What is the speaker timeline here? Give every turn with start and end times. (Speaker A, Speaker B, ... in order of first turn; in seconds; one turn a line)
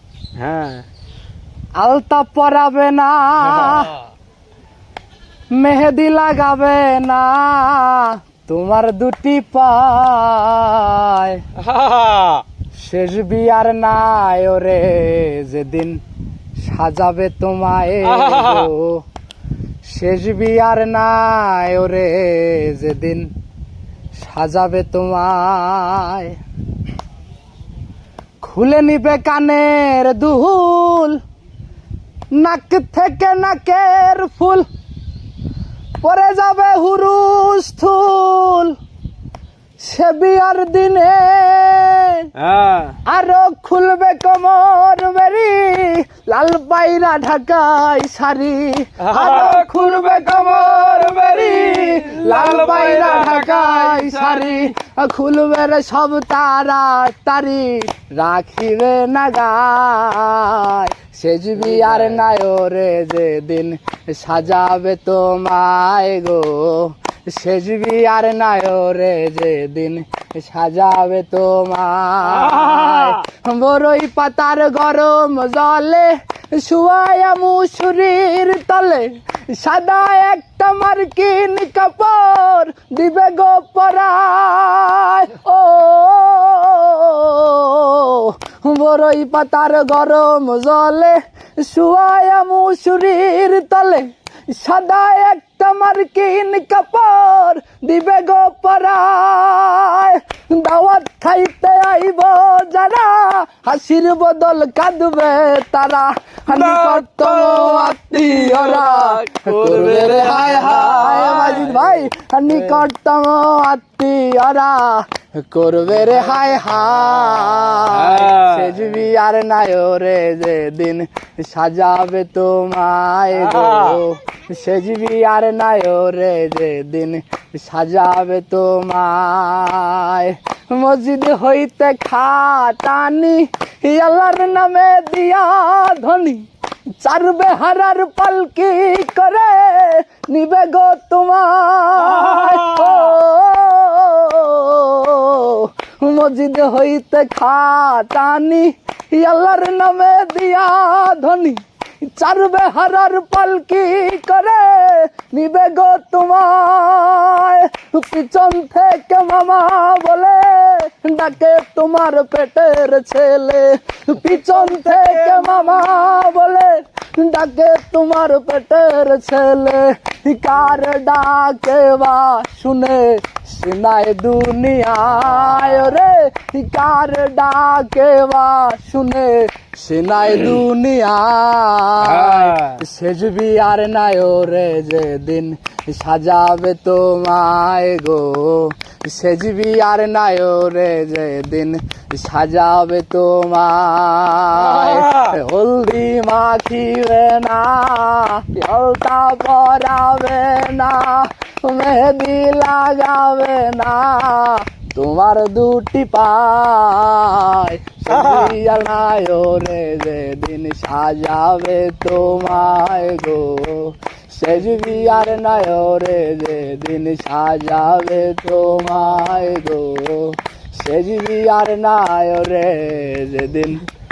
Speaker A: 0.4-0.8
Speaker B: 1.8-4.0
Speaker A: 3.6-3.9
Speaker B: 5.5-11.4
Speaker A: 11.6-12.4
Speaker B: 12.7-16.0
Speaker B: 16.6-19.0
Speaker A: 18.1-18.7
Speaker B: 19.8-23.3
Speaker B: 24.1-26.4
Speaker B: 28.4-31.2
Speaker B: 32.3-34.7
Speaker B: 36.0-38.8
Speaker B: 39.8-42.3
Speaker A: 42.4-43.0
Speaker B: 43.0-136.4
Speaker A: 49.0-49.6
Speaker A: 51.5-54.5
Speaker A: 61.7-62.1
Speaker A: 72.4-73.2
Speaker A: 106.5-111.9
Speaker A: 117.9-118.8
Speaker A: 123.4-124.0
Speaker B: 137.0-223.8
Speaker A: 142.1-142.9
Speaker A: 164.7-165.5
Speaker A: 182.0-182.8
Speaker A: 194.6-195.3
Speaker A: 208.1-208.5